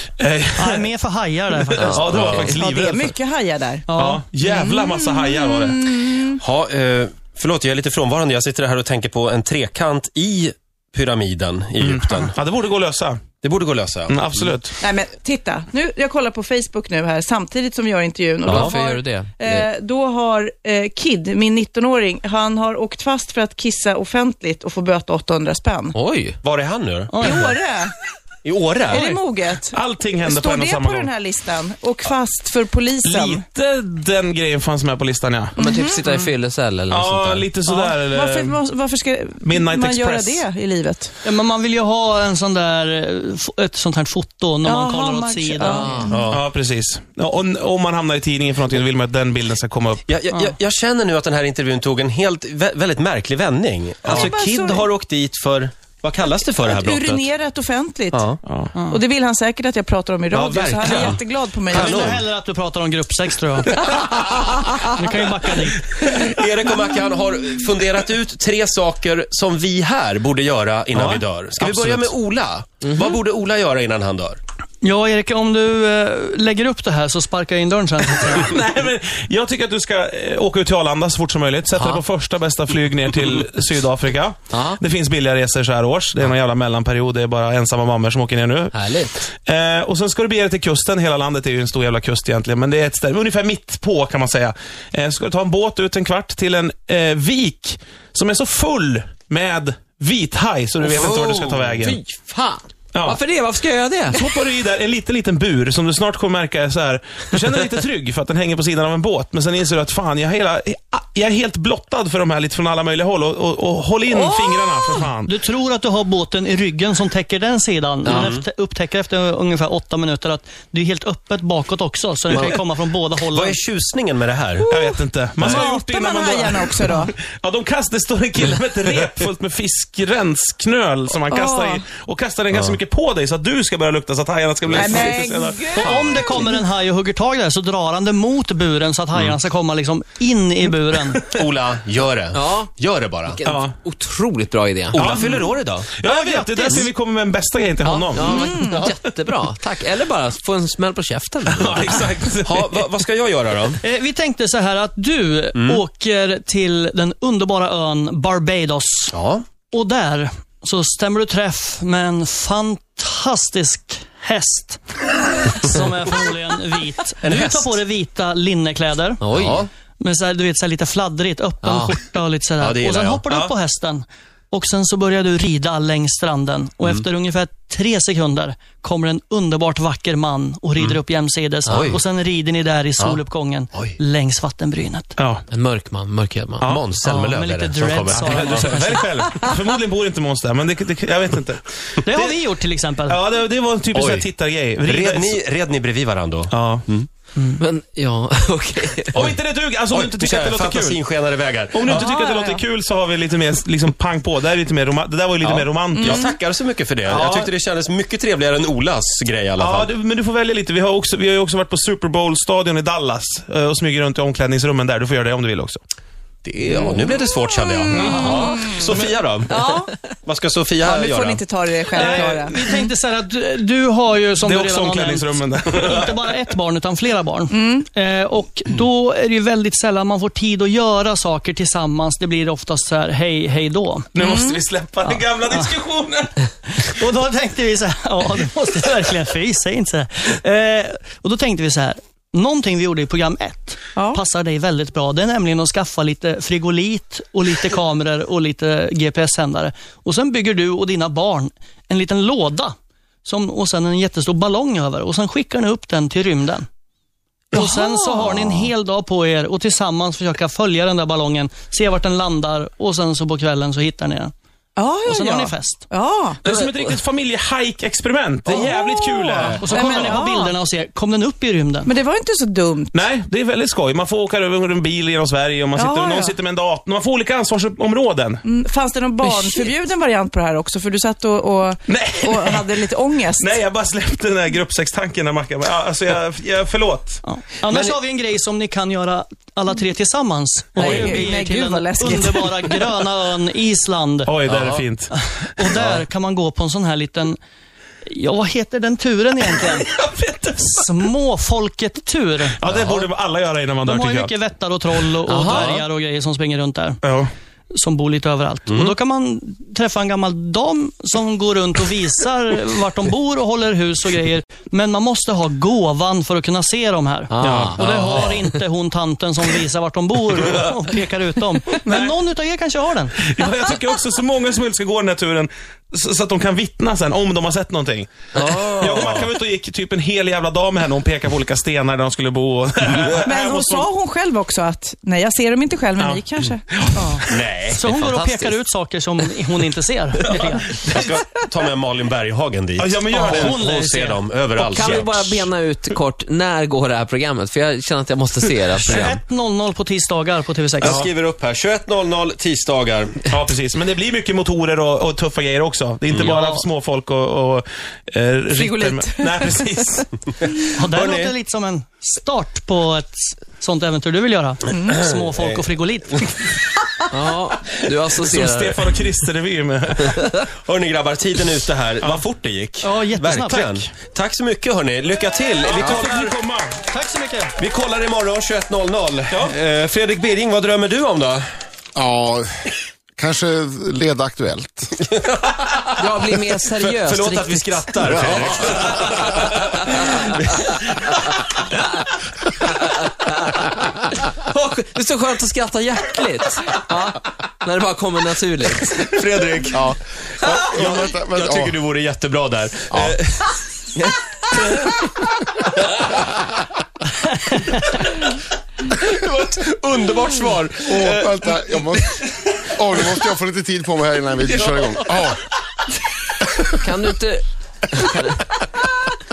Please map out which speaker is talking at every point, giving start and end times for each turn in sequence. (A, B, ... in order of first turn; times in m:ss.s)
0:00.2-0:00.8 A
0:00.6-0:02.2 B
0:01.7-0:03.1 A
0:01.8-0:02.6 C
0:02.1-0:02.6 D
0:02.5-0:03.9 E
0:03.9-0:04.2 B
0:03.9-0:05.8 A
0:04.4-0:06.4 E
0:06.4-0:12.3 D
0:11.8-0:13.3 A
0:13.4-0:14.6 D
0:14.1-0:14.7 A
0:14.8-0:26.0 E
0:18.5-0:19.6 C
0:18.5-0:18.8 D
0:25.9-0:26.4 C
0:26.4-0:27.5 D
0:27.1-0:27.6 B
0:27.2-0:27.9 E
0:28.4-0:29.1 D
0:28.9-0:33.4 E
0:28.9-0:29.2 B
0:29.7-0:31.1 A
0:33.0-0:35.6 A
0:35.6-0:36.3 E
0:35.6-0:37.5 C
0:36.9-0:38.6 A
0:37.6-0:41.1 E
0:39.4-0:40.4 A
0:41.2-0:46.1 B
0:44.6-0:46.3 E
0:45.7-0:46.2 C
0:46.1-0:46.4 D
0:46.3-0:50.0 A
0:50.1-0:57.3 D
0:54.1-0:54.3 A
0:54.1-0:54.9 E
0:56.7-0:58.3 E
0:58.1-0:58.4 D
0:58.4-0:58.7 A
0:58.7-0:59.0 B
0:58.9-1:02.1 E
1:00.3-1:01.1 A
1:00.7-1:01.2 B
1:01.7-1:03.8 B
1:01.8-1:02.2 D
1:04.8-1:05.8 B
1:06.0-1:14.4 D
1:10.9-1:11.2 A
1:11.8-1:12.1 A
1:12.8-1:13.2 C
1:14.8-1:18.5 B
1:18.4-1:28.8 A
1:21.8-1:22.0 C
1:24.5-1:24.8 C
1:28.7-1:29.3 C
1:29.3-1:42.0 A
1:40.8-1:44.3 C
1:42.9-1:43.2 A
1:44.1-1:55.3 A
1:54.1-2:03.6 B
1:54.2-1:54.6 E
1:58.0-1:58.3 C
1:58.1-1:58.4 D
2:02.3-2:02.6 C
2:03.3-2:04.7 D
2:04.7-2:07.1 E
2:04.7-2:15.7 A
2:11.3-2:11.8 E
2:12.5-2:12.8 D
2:14.7-2:15.0 D
2:14.7-2:16.6 E
2:15.7-2:21.2 B
2:21.4-2:23.4 D
2:22.3-2:22.7 C
2:23.3-2:25.4 C
2:23.4-2:23.8 A
2:24.9-2:25.9 D
2:26.0-2:28.5 A
2:26.0-2:26.9 B
2:27.8-2:32.1 C
2:28.2-2:28.8 E
2:31.5-2:32.9 A
2:32.5-2:33.8 D
2:33.8-2:39.2 B
2:35.6-2:35.8 D
2:39.1-2:39.4 D
2:39.7-2:49.2 B
2:47.2-2:47.8 D
2:49.2-2:49.6 C
2:49.3-2:49.7 D
2:50.0-3:05.2 B
2:51.6-2:52.0 C
2:52.6-2:53.2 D
3:01.7-3:02.0 D
3:01.7-3:02.0 C
3:05.2-3:05.4 A
3:05.5-3:06.7 C
3:06.7-3:08.9 D
3:07.0-3:09.1 B
3:08.2-3:11.6 A
3:12.0-3:13.2 B
3:13.1-3:15.4 A
3:13.9-3:14.3 D
3:14.8-3:17.1 D
3:16.5-3:16.8 A
3:17.6-3:19.3 C
3:19.2-3:21.0 A
3:19.9-3:22.0 D
3:21.7-3:26.2 A
3:21.9-3:22.6 E
3:25.4-3:29.9 D
3:25.8-3:26.4 E
3:27.0-3:27.5 A
3:29.6-3:35.8 A
3:36.4-3:39.7 D
3:36.7-3:39.9 E
3:37.9-3:38.3 A
3:40.2-3:41.4 D
3:40.8-3:42.9 E
3:41.9-3:54.2 B
3:44.4-3:46.1 A
3:47.5-3:47.8 E
3:54.2-3:56.3 A
3:54.2-3:54.6 E
3:55.0-3:55.8 B
3:56.7-4:16.7 B
4:04.0-4:04.2 E
4:17.5-4:24.3 B
4:17.6-4:18.5 E
4:24.8-4:26.4 E
4:25.0-4:25.9 B
4:26.4-4:30.2 A
4:28.5-4:30.6 E
4:29.6-4:31.9 B
4:31.8-4:33.0 E
4:32.9-4:38.4 A
4:35.7-4:36.4 E
4:38.4-4:43.6 E
4:39.2-4:39.7 B
4:41.9-4:42.7 A
4:43.4-4:47.9 A
4:47.2-4:54.3 B
4:50.8-4:51.2 D
4:50.8-4:52.7 E
4:54.2-4:55.2 A
4:54.5-4:54.8 D
4:55.1-4:57.4 B
4:55.8-4:56.0 D
4:58.1-4:59.9 B
4:59.6-5:00.8 A
5:00.6-5:02.6 B
5:02.6-5:04.3 A
5:03.8-5:07.0 B
5:05.3-5:05.8 C
5:05.5-5:05.8 A
5:07.0-5:07.3 A
5:07.7-5:23.2 B
5:17.3-5:18.4 C
5:17.4-5:18.0 A
5:23.2-5:33.9 A
5:28.4-5:29.3 D
5:28.4-5:29.0 C
5:33.2-5:36.9 E
5:36.0-5:37.0 A
5:37.0-5:40.8 B
5:37.2-5:37.9 D
5:37.9-5:38.6 C
5:40.9-5:45.5 D
5:42.8-5:43.6 A
5:43.1-5:44.2 B
5:44.6-5:49.2 C
5:48.8-5:51.0 B
5:50.8-5:53.3 D
5:53.3-6:00.0 A
5:56.2-5:56.6 B
5:58.5-5:59.8 E
6:00.7-6:06.6 B
6:00.9-6:01.3 D
6:05.1-6:05.5 D
6:07.1-6:08.9 C
6:08.2-6:10.4 A
6:10.6-6:16.4 D
6:12.8-6:13.8 B
6:15.6-6:16.8 A
6:16.9-6:17.5 B
6:17.6-6:21.5 D
6:19.3-6:19.5 A
6:22.0-6:25.0 F
6:25.4-6:25.8 D
6:26.0-6:28.7 C
6:26.9-6:29.5 D
6:33.2-6:33.5 C
6:34.4-6:39.1 C
6:39.0-6:39.8 D
6:39.7-6:41.8 F
6:40.6-6:43.5 D
6:42.9-6:43.2 F
6:49.0-6:51.5 D
6:50.8-6:55.4 F
6:54.5-6:55.2 D
6:56.8-6:58.4 C